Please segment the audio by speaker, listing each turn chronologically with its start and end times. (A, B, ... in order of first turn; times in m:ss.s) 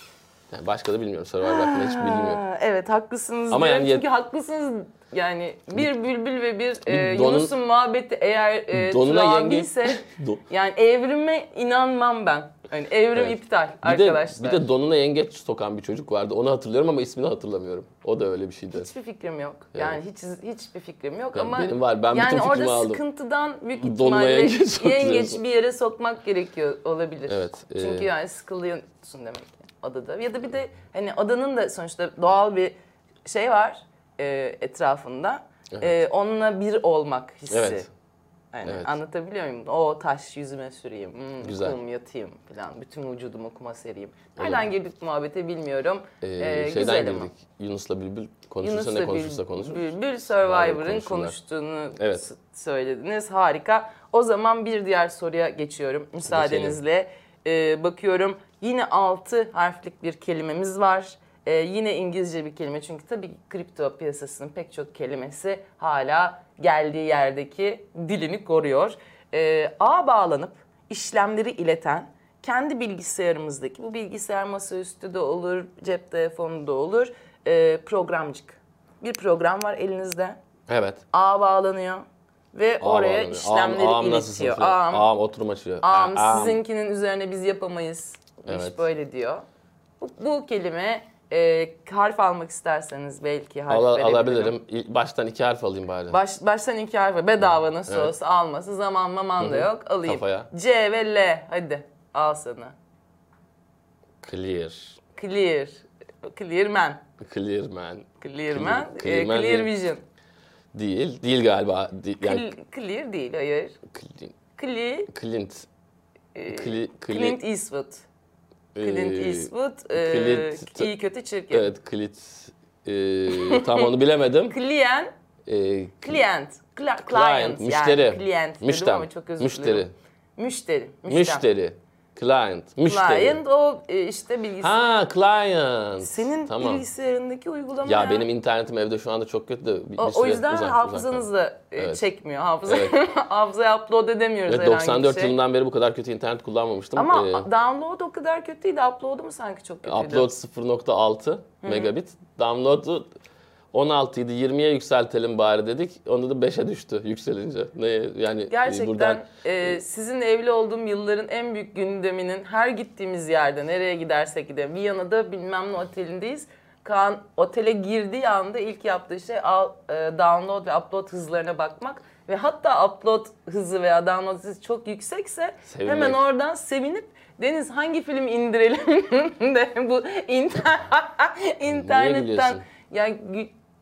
0:00.5-0:02.4 A
0:01.4-0:14.6 B
0:03.5-0:04.0 A
0:06.8-0:07.5 A
0:08.7-0:10.4 A
0:13.1-0:18.9 A
0:18.7-0:37.9 B
0:21.3-0:23.0 A
0:23.8-0:25.4 A
0:27.3-0:28.1 A
0:37.5-0:37.9 A
0:38.5-0:47.3 B
0:38.6-0:38.9 A
0:41.4-0:41.8 A
0:44.4-0:44.6 A
0:46.2-0:49.9 A
0:48.6-1:20.4 B
0:50.4-0:51.4 A
0:52.0-0:52.2 A
0:56.2-0:56.8 A
1:20.7-1:21.0 A
1:21.1-1:25.1 B
1:22.8-1:26.6 A
1:25.8-1:29.4 B
1:28.5-1:28.8 A
1:30.0-1:34.5 B
1:33.7-1:36.2 A
1:36.1-1:42.7 B
1:37.9-1:38.1 A
1:39.4-1:40.5 A
1:44.2-1:45.0 A
1:45.1-1:47.0 B
1:47.2-1:49.7 A
1:48.2-1:50.0 B
1:50.7-1:52.5 A
1:52.2-1:53.8 B
1:53.9-1:54.3 A
1:54.6-1:55.1 B
1:55.1-1:55.7 A
1:56.3-1:58.0 B
1:56.5-1:57.4 A
1:58.7-2:00.9 A
1:58.8-2:01.7 B
2:01.5-2:04.6 A
2:03.3-2:03.9 B
2:04.5-2:05.1 B
2:05.4-2:06.2 A
2:06.0-2:09.8 B
2:07.0-2:09.9 A
2:10.4-2:11.4 B
2:11.1-2:13.4 A
2:12.8-2:14.8 B
2:14.6-2:16.8 A
2:16.0-2:18.2 B
2:17.8-2:21.2 A
2:20.0-2:25.3 B
2:21.8-2:22.0 A
2:22.6-2:23.0 A
2:24.5-2:27.5 A
2:26.9-2:30.3 B
2:29.8-2:33.1 A
2:31.6-2:31.9 B
2:33.7-2:39.8 A
2:38.5-3:03.5 B
2:55.6-2:56.2 A
3:01.7-3:02.6 A